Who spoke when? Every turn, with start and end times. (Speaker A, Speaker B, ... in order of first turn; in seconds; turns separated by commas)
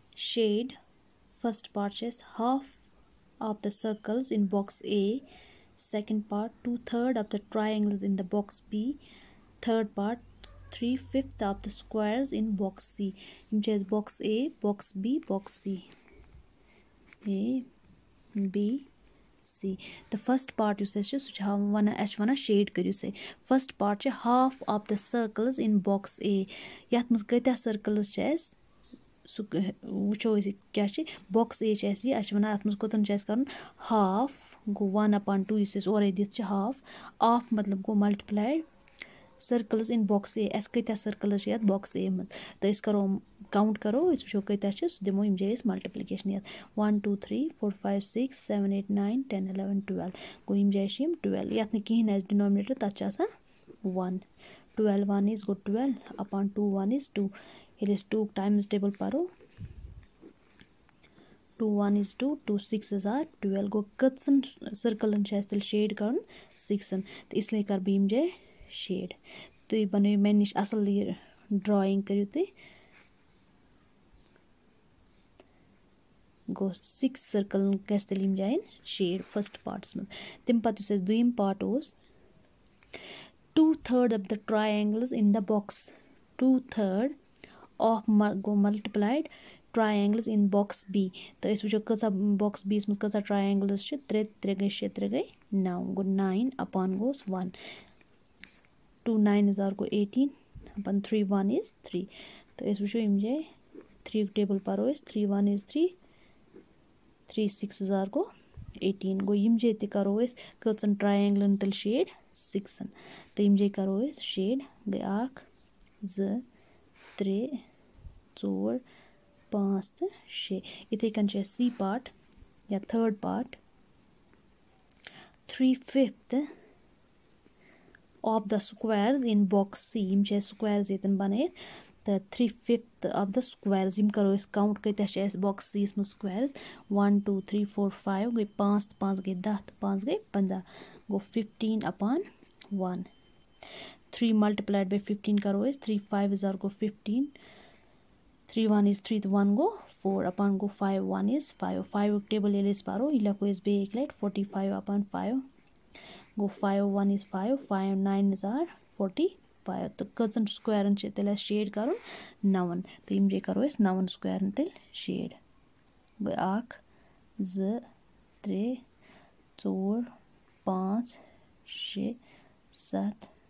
Speaker A: 0.1-0.8, Speaker A: 1.3-2.8, Speaker A: 3.4-9.0, Speaker A: 9.6-15.9, Speaker A: 17.2-17.7, Speaker A: 18.4-18.9, Speaker A: 19.4-28.6, Speaker A: 29.2-38.6, Speaker A: 39.4-53.3, Speaker A: 53.8-54.2, Speaker A: 54.8-59.3, Speaker A: 61.6-72.5, Speaker A: 76.5-82.0, Speaker A: 83.5-87.2, Speaker A: 87.8-97.5, Speaker A: 99.0-103.5, Speaker A: 104.0-106.0, Speaker A: 107.3-115.5, Speaker A: 116.0-116.4, Speaker A: 117.2-117.6, Speaker A: 118.3-118.8, Speaker A: 119.5-122.1, Speaker A: 122.7-123.6, Speaker A: 125.5-126.5, Speaker A: 128.2-131.5, Speaker A: 132.0-143.1, Speaker A: 144.1-147.3, Speaker A: 148.5-155.4, Speaker A: 156.3-165.4, Speaker A: 166.2-166.8, Speaker A: 167.4-167.8, Speaker A: 168.4-168.8, Speaker A: 169.6-170.1, Speaker A: 170.6-172.2, Speaker A: 172.7-173.3